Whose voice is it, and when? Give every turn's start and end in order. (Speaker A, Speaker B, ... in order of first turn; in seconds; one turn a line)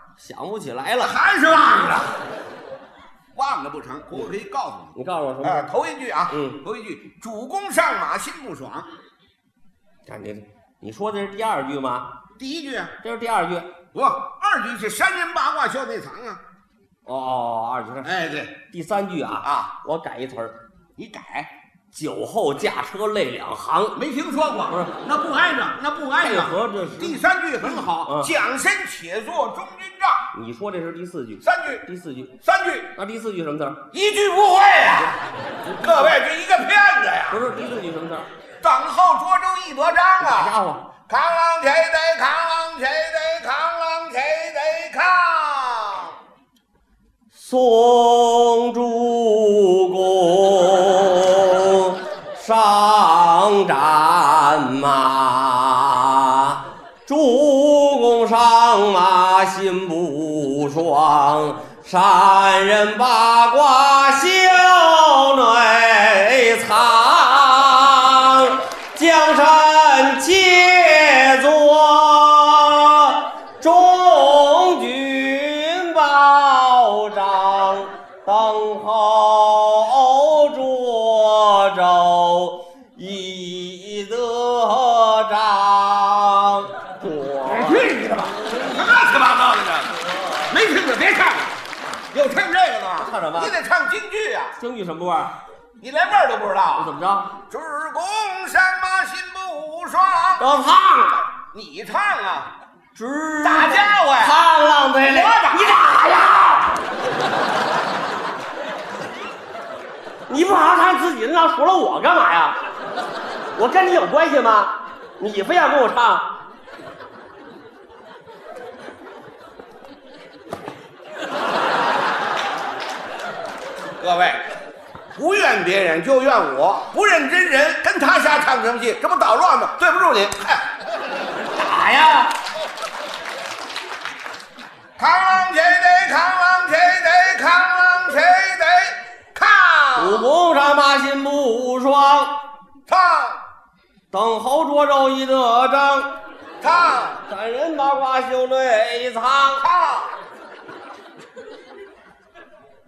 Speaker A: 0.2-1.2
Speaker B: 1.0-2.1
Speaker B: 3.3-8.9
Speaker A: 4.9-5.7
Speaker A: 6.3-6.6
Speaker A: 10.1-12.1
Speaker B: 12.4-12.9
Speaker A: 13.0-13.7
Speaker B: 13.9-16.4
Speaker A: 17.1-18.1
Speaker B: 18.0-18.5
Speaker A: 18.7-20.5
Speaker B: 19.4-19.7
Speaker B: 21.0-21.5
Speaker A: 21.9-24.0
Speaker B: 23.9-30.3
Speaker A: 24.7-24.9
Speaker A: 26.2-28.3
Speaker A: 30.3-32.3
Speaker B: 31.4-31.8
Speaker B: 32.4-32.9
Speaker A: 32.9-33.8
Speaker B: 33.9-37.5
Speaker A: 35.6-36.2
Speaker A: 37.3-38.3
Speaker B: 38.6-40.6
Speaker A: 40.2-40.9
Speaker B: 41.1-46.1
Speaker A: 47.3-89.0
Speaker B: 87.4-91.6
Speaker A: 89.9-90.5
Speaker B: 92.1-94.5
Speaker A: 93.0-93.5
Speaker A: 94.6-95.3
Speaker B: 95.8-96.9
Speaker A: 96.7-97.3
Speaker B: 97.5-100.5
Speaker A: 100.4-101.3
Speaker B: 101.3-102.5
Speaker A: 102.9-106.9
Speaker B: 103.4-104.4
Speaker B: 105.0-106.0
Speaker A: 110.3-112.6
Speaker A: 113.5-116.3
Speaker B: 124.0-124.4
Speaker B: 125.1-130.7
Speaker B: 131.5-132.3
Speaker B: 135.0-140.3
Speaker A: 139.9-142.3
Speaker B: 142.9-143.4
Speaker A: 144.1-146.1
Speaker B: 146.6-147.2
Speaker A: 147.3-149.6
Speaker B: 149.6-150.2